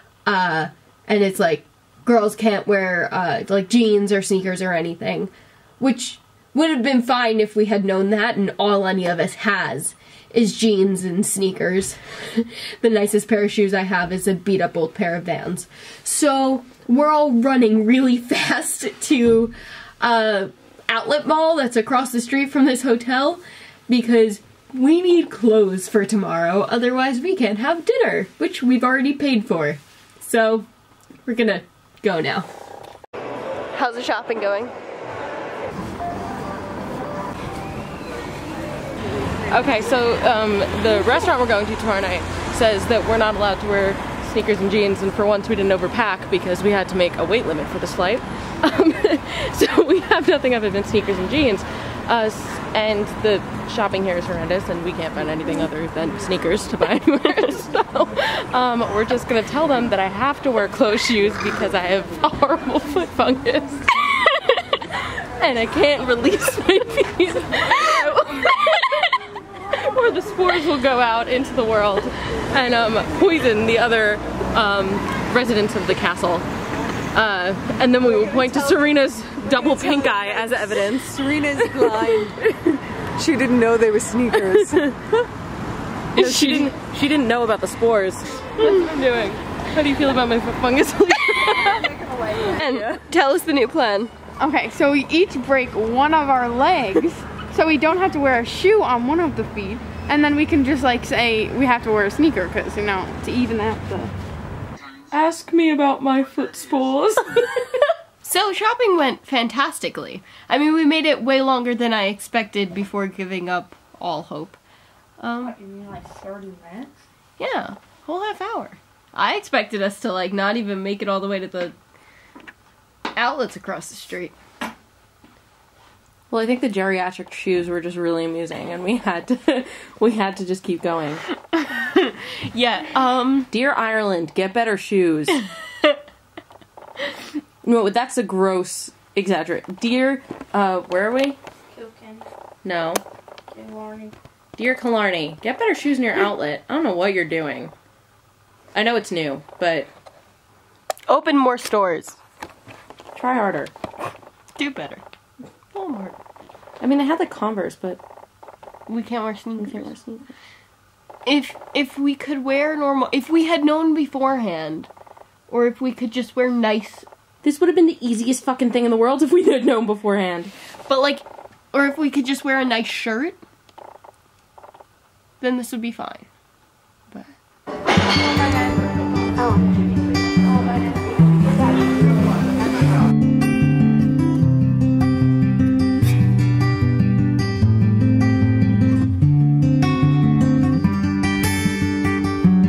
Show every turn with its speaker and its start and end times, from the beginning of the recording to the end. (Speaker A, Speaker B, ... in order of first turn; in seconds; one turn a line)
Speaker A: 0.2-30.7
Speaker A: 31.2-32.5
Speaker A: 33.7-34.7
Speaker B: 39.5-76.4
Speaker B: 77.1-82.4
Speaker C: 80.9-82.4
Speaker C: 83.2-84.9
Speaker B: 84.5-84.9
Speaker B: 86.1-91.9
Speaker C: 86.2-86.5
Speaker A: 92.4-94.1
Speaker C: 92.6-93.0
Speaker D: 94.4-104.1
Speaker B: 105.1-107.8
Speaker A: 108.2-114.6
Speaker A: 115.2-115.5
Speaker D: 115.5-116.9
Speaker A: 117.4-121.7
Speaker A: 123.1-124.3
Speaker B: 126.3-131.2
Speaker A: 131.5-133.5
Speaker B: 133.5-135.4
Speaker B: 137.6-141.4
Speaker B: 142.6-143.0
Speaker D: 143.5-144.1
Speaker B: 144.6-147.7
Speaker B: 148.7-149.9
Speaker A: 151.1-152.2
Speaker B: 153.1-153.7
Speaker A: 154.6-155.0
Speaker A: 155.7-156.2
Speaker B: 156.8-158.0
Speaker A: 158.9-159.9
Speaker B: 159.6-160.3
Speaker A: 161.2-164.9
Speaker A: 165.5-167.1
Speaker B: 167.4-170.5
Speaker A: 170.9-173.4
Speaker A: 175.4-176.3